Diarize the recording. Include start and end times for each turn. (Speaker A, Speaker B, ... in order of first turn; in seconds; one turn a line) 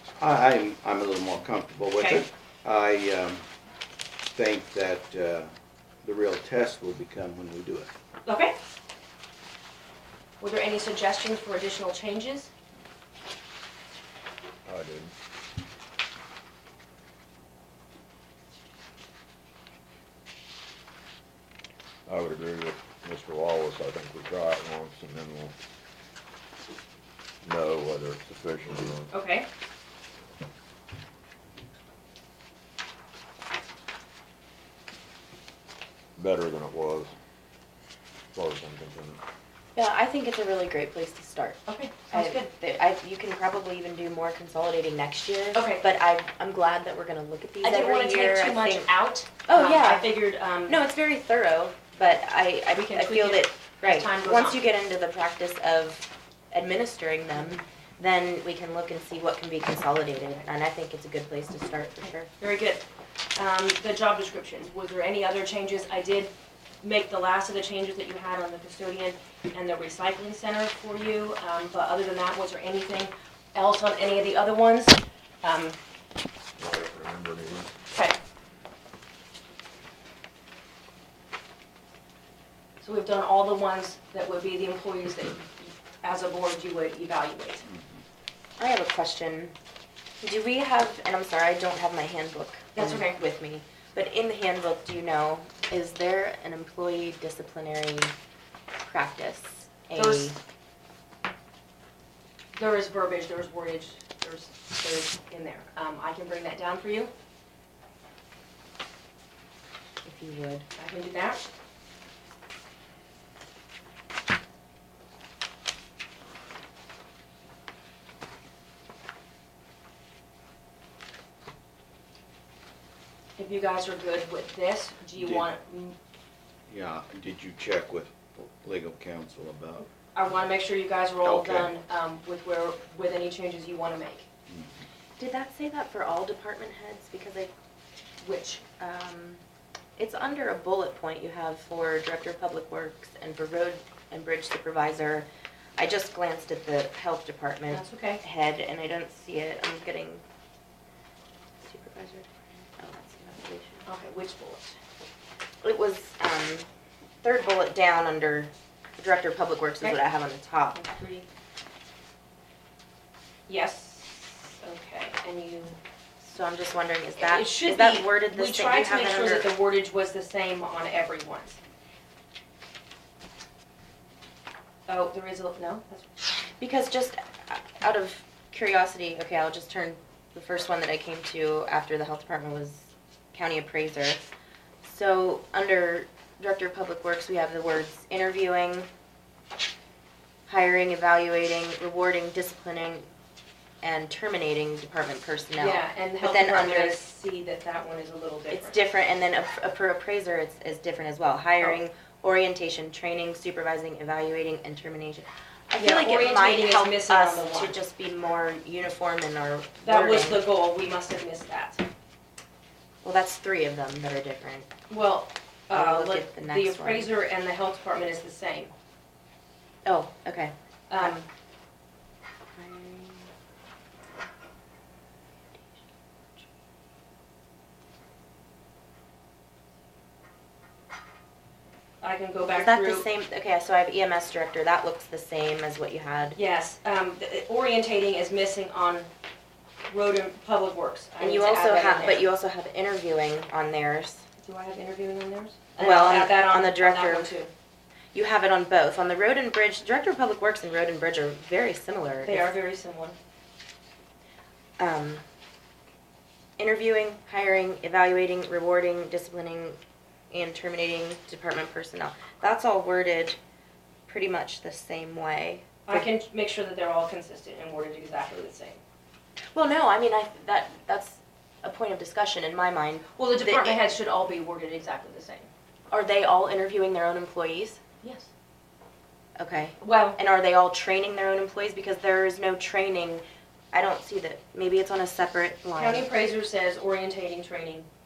Speaker A: 0.2-3.4
Speaker B: 2.0-2.2
Speaker A: 4.3-5.5
Speaker A: 6.0-7.9
Speaker B: 8.3-8.5
Speaker B: 10.4-12.5
Speaker C: 14.7-15.1
Speaker C: 22.1-25.5
Speaker C: 27.4-29.1
Speaker B: 29.1-29.5
Speaker C: 36.2-37.1
Speaker C: 38.3-39.2
Speaker D: 39.8-48.9
Speaker B: 41.7-42.5
Speaker B: 45.5-45.8
Speaker B: 47.6-50.8
Speaker D: 49.5-62.3
Speaker B: 52.7-54.6
Speaker B: 62.4-62.8
Speaker B: 63.3-75.8
Speaker C: 76.6-77.7
Speaker B: 82.8-87.6
Speaker A: 87.7-88.0
Speaker D: 88.6-89.5
Speaker D: 90.2-98.1
Speaker B: 92.7-93.2
Speaker D: 98.8-100.3
Speaker B: 100.0-100.4
Speaker B: 102.5-107.1
Speaker D: 110.0-110.7
Speaker B: 110.8-111.4
Speaker B: 123.4-125.9
Speaker A: 125.2-125.5
Speaker A: 126.7-129.9
Speaker B: 130.1-134.3
Speaker A: 131.2-131.7
Speaker D: 135.2-137.5
Speaker B: 138.2-138.6
Speaker D: 138.8-139.4
Speaker D: 140.0-150.2
Speaker B: 147.7-148.2
Speaker D: 151.6-153.8
Speaker B: 153.8-154.8
Speaker D: 155.6-156.7
Speaker D: 157.2-160.8
Speaker B: 160.7-161.2
Speaker B: 163.5-165.8
Speaker D: 166.2-169.5
Speaker B: 167.2-171.6
Speaker B: 174.9-176.1
Speaker D: 176.6-184.3
Speaker D: 184.8-188.9
Speaker D: 190.5-193.1
Speaker D: 193.8-197.0
Speaker B: 195.6-198.8
Speaker D: 198.5-210.4
Speaker B: 205.8-207.8
Speaker B: 209.8-211.8
Speaker D: 213.0-214.7
Speaker B: 214.9-218.7
Speaker D: 215.7-217.1
Speaker D: 219.8-221.1
Speaker B: 220.9-221.3
Speaker D: 222.6-223.3
Speaker B: 232.0-233.1
Speaker D: 232.6-236.4
Speaker B: 236.3-239.1
Speaker B: 239.9-242.2
Speaker D: 241.2-244.2
Speaker B: 244.4-247.5
Speaker D: 245.8-247.3
Speaker D: 248.1-252.5
Speaker B: 252.2-253.2
Speaker D: 254.8-255.2
Speaker D: 256.6-259.8
Speaker D: 260.3-263.4
Speaker D: 264.1-266.1
Speaker B: 265.9-268.8
Speaker D: 269.5-273.8
Speaker B: 273.1-275.5
Speaker D: 275.9-277.8
Speaker B: 278.0-278.3
Speaker D: 279.4-286.1
Speaker B: 279.8-280.2
Speaker B: 285.8-287.9